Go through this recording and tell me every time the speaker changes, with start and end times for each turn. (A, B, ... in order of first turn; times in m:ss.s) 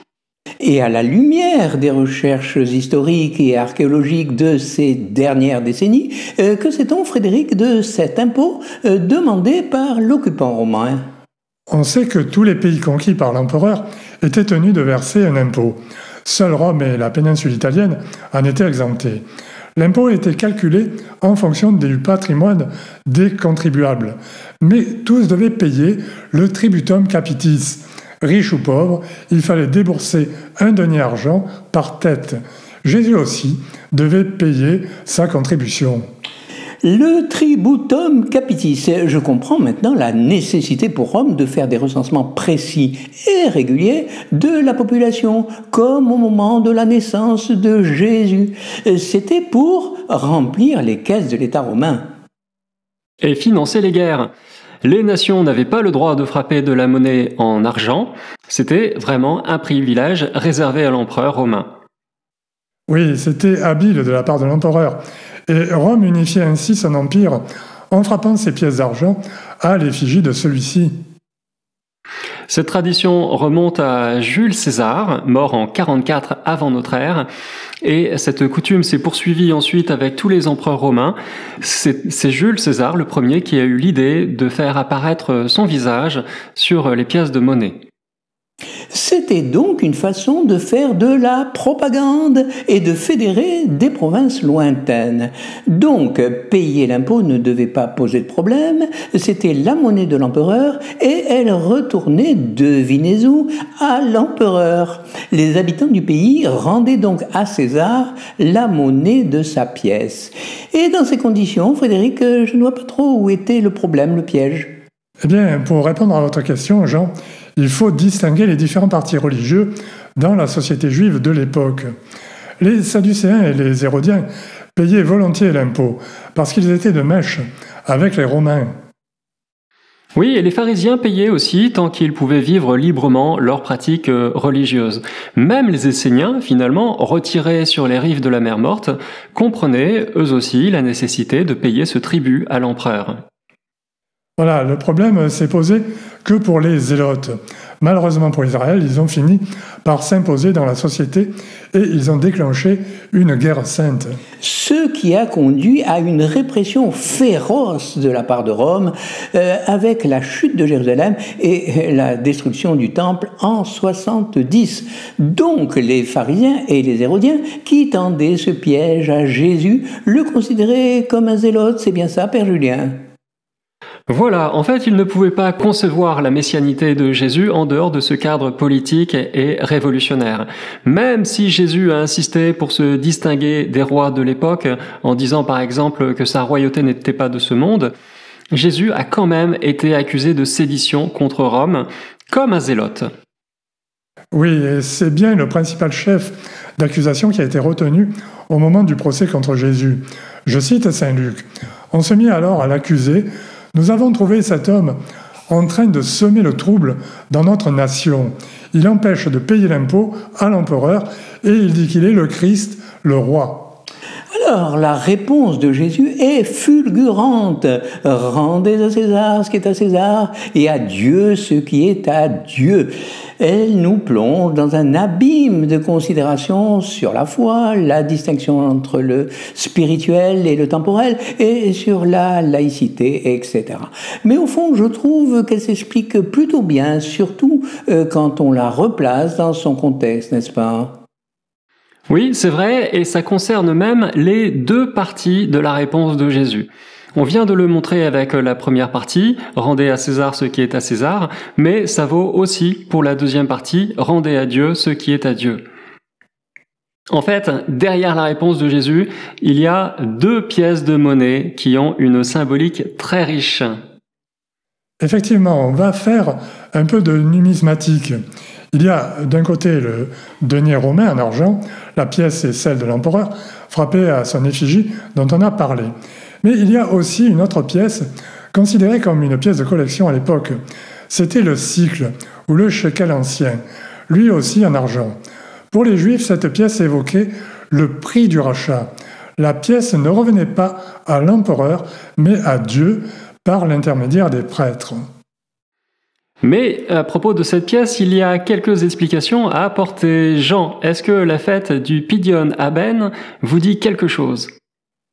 0:00.6-0:11.0 A
0:11.7-0:19.2 B
0:19.8-0:36.0 B
0:36.8-0:52.0 A
0:53.2-0:54.3 C
0:54.8-1:01.7 C
1:02.9-1:10.9 B
1:12.5-1:17.3 C
1:17.8-1:27.8 C
1:28.9-1:54.7 A
1:55.2-2:01.9 B
2:02.6-2:08.7 B
2:10.2-2:23.2 C
2:24.4-2:34.2 B
2:34.4-2:53.0 A
2:54.1-3:07.9 C
3:08.5-3:13.1 C
3:14.3-3:25.0 B
3:25.5-3:33.8 B
3:34.3-4:01.0 A
4:02.1-4:15.6 C
4:17.1-4:23.8 C
4:25.0-4:28.2 B
4:28.7-4:35.9 B
4:36.4-4:40.6 B
4:41.1-4:45.2 B
4:45.7-4:55.0 B
4:56.4-5:04.5 C